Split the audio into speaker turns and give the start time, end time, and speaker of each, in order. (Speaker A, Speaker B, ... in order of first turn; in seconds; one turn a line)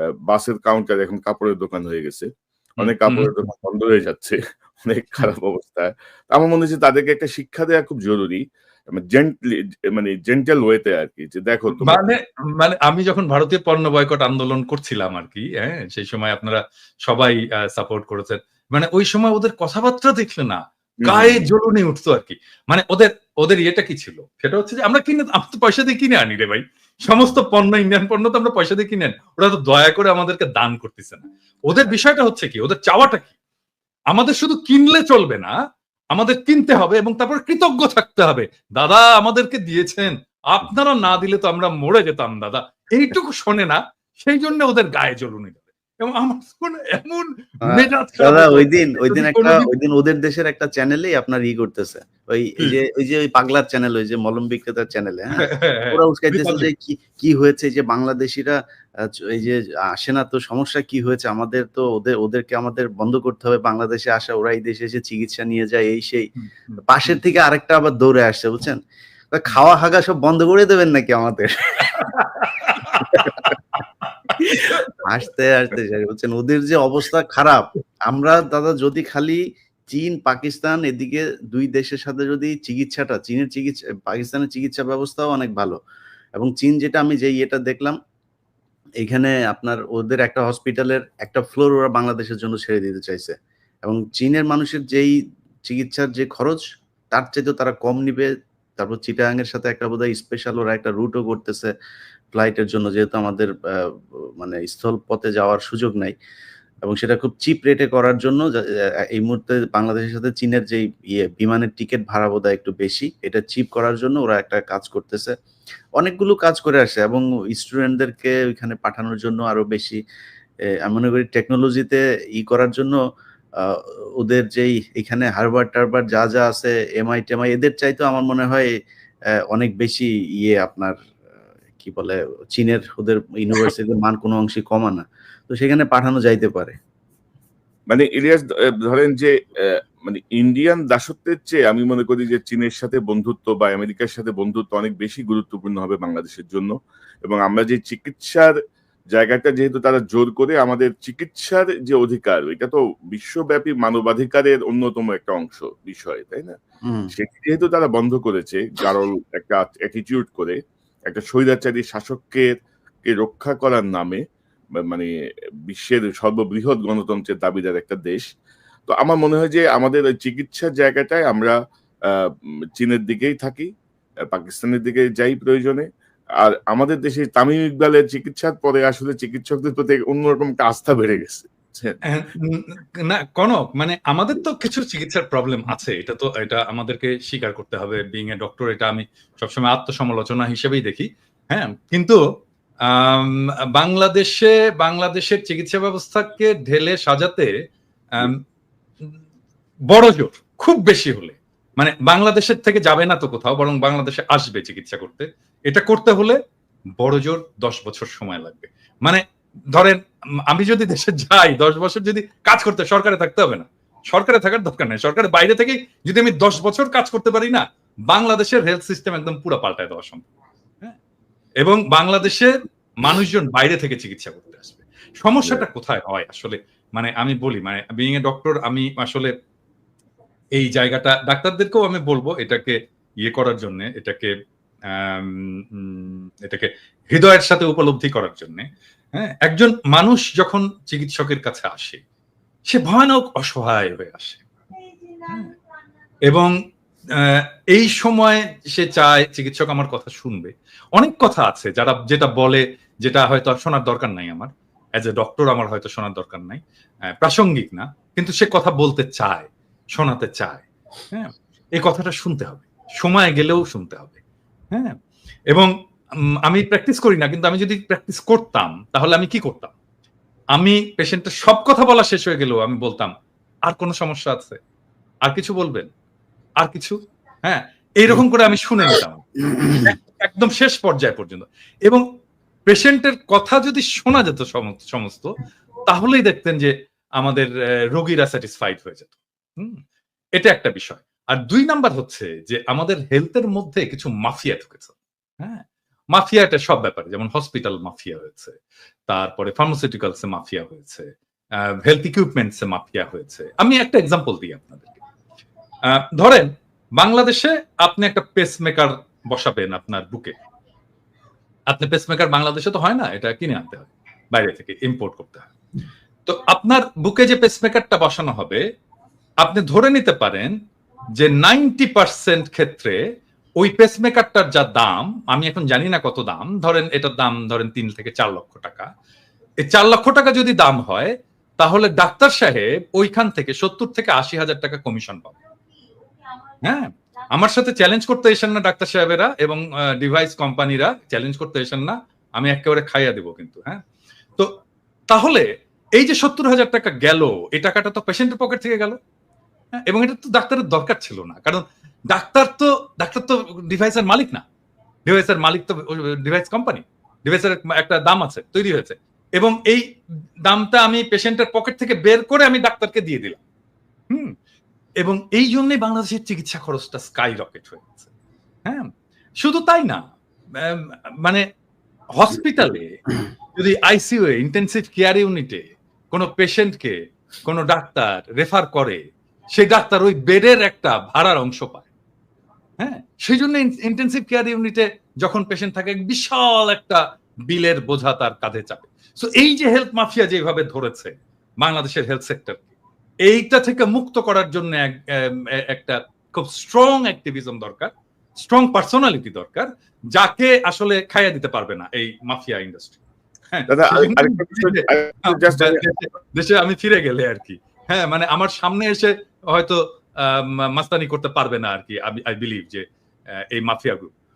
Speaker A: 0.3-12.0
Speaker B: 2.8-3.3
Speaker B: 11.8-33.3
Speaker A: 21.0-21.5
Speaker B: 34.1-35.5
Speaker B: 36.1-49.7
Speaker C: 47.6-58.5
Speaker B: 55.4-56.7
Speaker C: 59.1-66.3
Speaker B: 66.4-67.2
Speaker C: 66.9-68.8
Speaker C: 69.3-71.9
Speaker B: 71.8-74.9
Speaker C: 75.0-79.4
Speaker C: 79.9-85.8
Speaker C: 86.4-88.0
Speaker C: 89.0-93.3
Speaker C: 93.8-95.1
Speaker C: 95.7-96.6
Speaker C: 97.1-101.7
Speaker C: 102.3-106.1
Speaker C: 106.8-108.4
Speaker C: 109.1-115.3
Speaker C: 116.0-120.0
Speaker C: 120.8-123.0
Speaker C: 123.6-128.7
Speaker C: 129.5-130.9
Speaker C: 131.8-136.7
Speaker A: 137.9-139.3
Speaker A: 140.1-146.7
Speaker A: 147.2-148.5
Speaker A: 149.1-156.6
Speaker C: 156.9-157.1
Speaker A: 157.1-160.6
Speaker A: 161.1-164.2
Speaker A: 165.7-168.2
Speaker A: 168.9-171.6
Speaker A: 172.8-173.7
Speaker A: 174.3-175.9
Speaker A: 176.4-182.0
Speaker B: 182.1-192.2
Speaker B: 192.9-197.5
Speaker B: 199.9-206.4
Speaker B: 207.0-209.2
Speaker B: 209.7-210.0
Speaker B: 210.5-220.3
Speaker B: 221.6-229.3
Speaker B: 230.6-234.3
Speaker B: 234.9-242.0
Speaker B: 242.7-244.4
Speaker B: 245.3-245.5
Speaker B: 247.2-256.6
Speaker B: 257.2-264.1
Speaker B: 266.5-269.7
Speaker B: 270.5-273.1
Speaker B: 273.7-274.6
Speaker B: 275.2-275.9
Speaker B: 276.6-282.0
Speaker B: 282.7-289.8
Speaker B: 290.4-298.6
Speaker B: 299.1-301.1
Speaker B: 301.8-305.0
Speaker B: 305.9-310.4
Speaker B: 311.7-315.5
Speaker B: 316.3-318.6
Speaker B: 319.4-320.5
Speaker B: 321.2-323.0
Speaker B: 323.6-328.9
Speaker B: 329.6-335.3
Speaker B: 336.6-343.8
Speaker B: 345.1-345.5
Speaker B: 346.0-349.0
Speaker B: 349.8-354.4
Speaker B: 355.1-359.8
Speaker B: 360.4-363.4
Speaker B: 365.0-368.1
Speaker B: 369.4-371.4
Speaker B: 372.1-373.0
Speaker B: 373.6-379.0
Speaker B: 379.5-381.9
Speaker B: 382.8-392.7
Speaker B: 393.3-403.0
Speaker B: 403.5-412.8
Speaker A: 403.7-405.8
Speaker B: 413.5-414.1